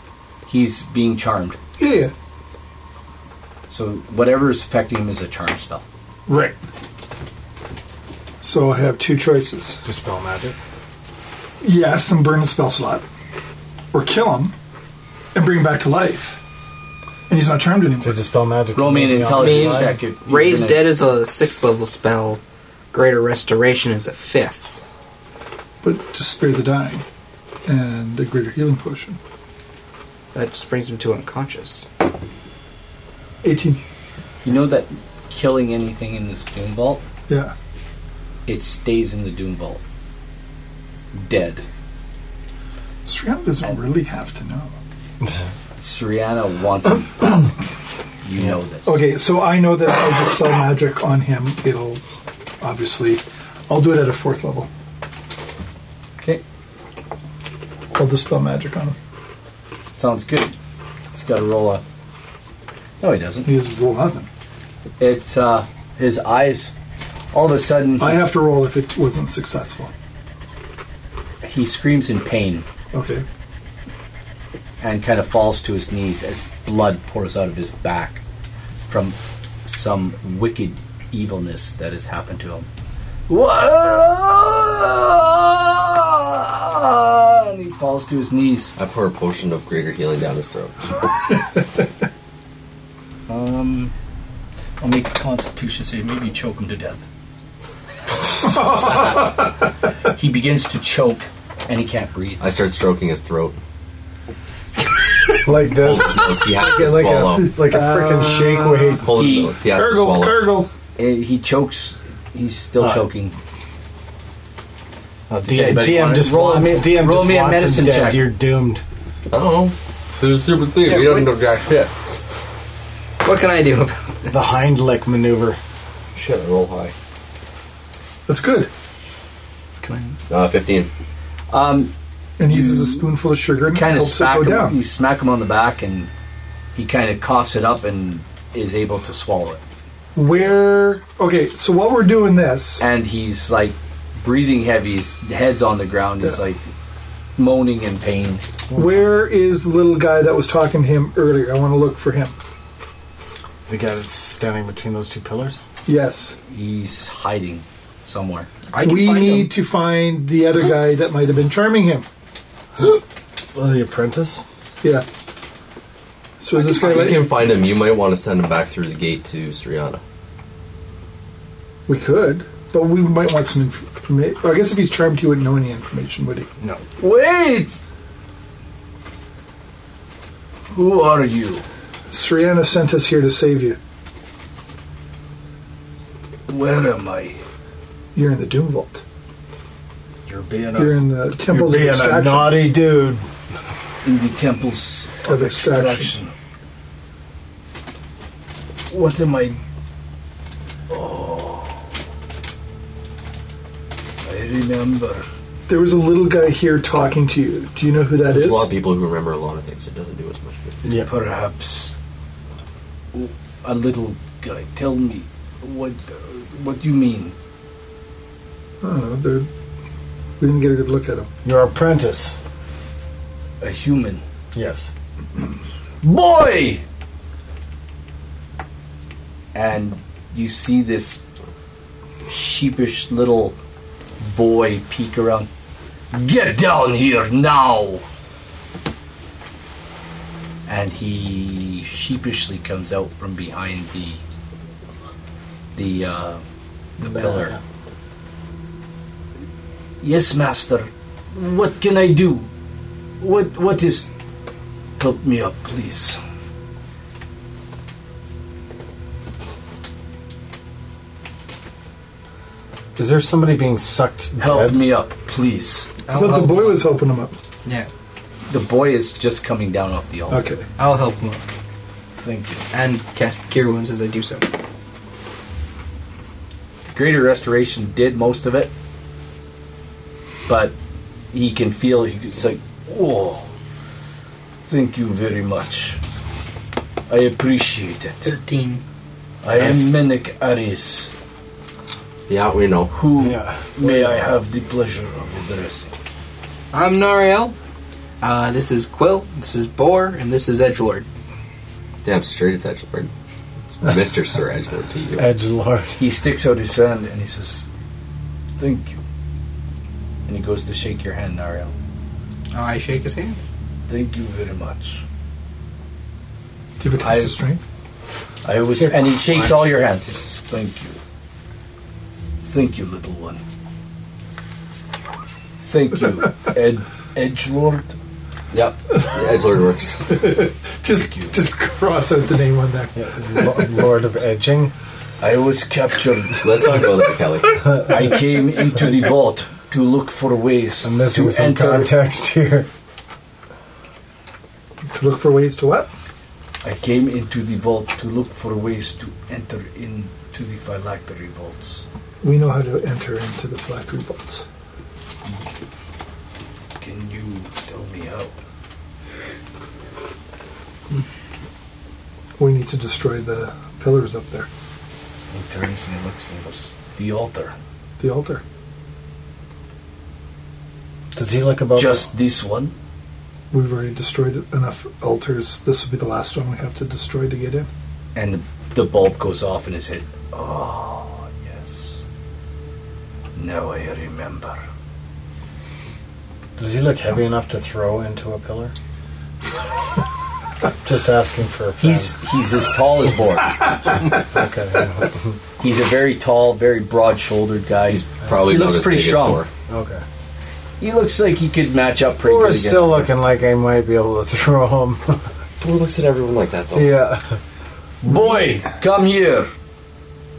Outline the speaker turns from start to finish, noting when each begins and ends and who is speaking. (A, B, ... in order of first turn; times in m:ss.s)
0:00.5-0:01.6 A
0:01.8-0:02.1 B
0:03.7-0:05.8 A
0:06.3-0:06.6 B
0:08.4-0:09.8 B
0:09.8-0:10.6 C
0:11.6-0:13.0 B
0:13.9-0:14.5 B
0:15.3-0:16.4 B
0:17.3-0:18.1 B
0:18.0-0:20.0 C
0:18.7-0:20.9 A
0:19.4-0:22.4 D
0:22.9-0:24.8 D
0:25.8-0:27.0 B
0:27.6-0:29.2 B
0:30.3-0:31.9 D
0:33.4-0:33.8 B
0:34.4-0:37.0 A
0:37.3-0:37.5 B
0:38.4-0:39.8 A
0:41.1-0:41.6 A
0:43.0-0:44.7 B
0:45.8-0:47.5 A
0:48.2-0:49.0 A
0:48.8-0:52.0 B
0:52.6-0:54.7 B
0:57.9-0:59.0 B
1:00.0-1:00.5 A
1:01.1-1:01.8 A
1:03.0-1:03.5 A
1:03.4-1:04.3 B
1:05.0-1:06.7 A
1:07.3-1:08.3 A
1:08.0-1:09.9 B
1:11.4-1:12.6 A
1:12.9-1:13.2 B
1:14.8-1:18.2 A
1:18.9-1:22.7 A
1:23.3-1:28.7 A
1:28.8-1:30.9 E
1:33.3-1:33.9 A
1:34.8-1:37.0 A
1:38.4-1:39.2 B
1:40.0-1:42.4 A
1:42.4-1:43.6 E
1:45.4-1:49.1 C
1:45.8-1:47.5 E
1:47.4-1:49.0 B
1:49.0-1:50.5 E
1:49.1-1:49.6 A
1:49.7-1:50.7 B
1:51.0-1:53.4 A
1:52.8-1:53.0 C
1:55.3-1:58.8 C
1:55.4-1:58.3 A
1:59.3-2:01.9 E
2:00.8-2:01.3 D
2:03.2-2:04.6 D
2:04.3-2:05.6 C
2:06.2-2:06.9 E
2:08.3-2:08.7 B
2:09.8-2:10.2 D
2:10.3-2:10.9 E
2:11.5-2:11.9 A
2:12.4-2:14.8 B
2:12.4-2:13.1 A
2:13.7-2:16.1 A
2:16.7-2:19.6 A
2:20.1-2:22.8 B
2:22.8-2:26.6 A
2:27.4-2:28.4 A
2:28.7-2:29.1 C
2:28.7-2:32.3 B
2:33.7-2:35.6 C
2:35.8-2:36.4 B
2:36.5-2:38.5 A
2:38.7-2:39.5 D
2:38.8-2:42.0 B
2:43.5-2:44.4 C
2:46.4-2:47.3 B
2:46.6-2:50.0 E
2:51.9-2:56.5 B
2:57.0-2:57.8 A
3:00.7-3:01.6 A
3:02.1-3:03.8 B
3:06.5-3:07.4 A
3:08.1-3:09.0 B
3:10.2-3:13.2 C
3:10.8-3:12.7 B
3:14.0-3:16.3 A
3:15.2-3:16.1 B
3:18.9-3:19.6 A
3:20.9-3:21.8 A
3:24.2-3:25.3 A
3:25.7-3:28.7 B
3:28.3-3:30.8 E
3:30.8-3:31.1 C
3:30.9-3:31.9 A
3:33.1-3:37.3 A
3:38.8-3:39.5 B
3:40.4-3:41.3 B
3:41.4-3:42.4 C
3:43.6-3:44.2 A
3:44.5-3:44.9 C
3:46.0-3:46.8 A
3:49.5-3:51.2 A
3:52.3-3:53.6 A
3:54.2-3:55.5 A
3:56.1-3:58.0 A
4:00.6-4:04.2 A
4:05.7-4:06.4 A
4:07.0-4:07.6 A
4:07.0-4:07.6 C
4:10.0-4:12.5 A
4:13.2-4:14.0 A
4:15.0-4:16.2 A
4:23.0-4:24.8 C
4:24.4-4:25.9 A
4:26.1-4:26.9 D
4:26.1-4:27.3 B
4:28.5-4:30.5 A
4:30.3-4:30.7 B
4:30.8-4:31.4 D
4:32.1-4:32.6 A
4:32.7-4:34.4 D
4:36.9-4:38.7 A
4:40.5-4:40.7 A
4:41.3-4:43.5 A
4:44.7-4:46.0 A
4:47.1-4:48.2 A
4:48.2-4:48.8 D
4:49.4-4:51.1 A
4:49.5-4:49.9 C
4:52.3-4:52.9 E
4:52.9-4:55.9 A
4:53.1-4:54.3 C
4:56.7-4:57.5 D
4:58.2-5:01.1 D
5:02.0-5:03.1 E
5:03.7-5:05.2 E
5:05.2-5:06.0 C
5:06.0-5:07.7 A
5:08.6-5:09.0 A
5:10.2-5:11.7 A
5:12.5-5:13.4 D
5:13.9-5:15.0 A
5:16.8-5:17.6 B
5:17.0-5:17.4 A
5:18.4-5:21.0 A
5:18.8-5:19.7 C
5:22.4-5:23.4 A
5:25.6-5:28.0 A
5:28.5-5:30.2 E
5:30.1-5:33.7 B
5:30.9-5:31.3 A
5:32.9-5:34.7 C
5:35.2-5:36.7 A
5:36.4-5:37.8 E
5:37.8-5:41.9 A
5:40.8-5:42.7 C
5:44.9-5:45.9 B
5:46.6-5:51.8 A
5:52.2-5:54.4 B
5:56.8-5:58.3 A
6:02.4-6:04.5 B
6:05.3-6:07.5 A
6:08.0-6:08.4 B
6:11.1-6:12.1 C
6:11.7-6:12.7 A
6:13.5-6:17.7 B
6:18.1-6:22.0 A
6:23.3-6:24.6 A
6:26.6-6:28.7 C
6:30.8-6:32.2 C
6:31.8-6:33.6 A
6:34.0-6:35.4 C
6:35.6-6:39.4 A
6:37.9-6:39.5 E
6:39.7-6:40.0 C
6:40.8-6:43.1 A
6:42.2-6:45.3 C
6:45.6-6:47.0 E
6:46.7-6:47.4 C
6:48.0-6:49.5 A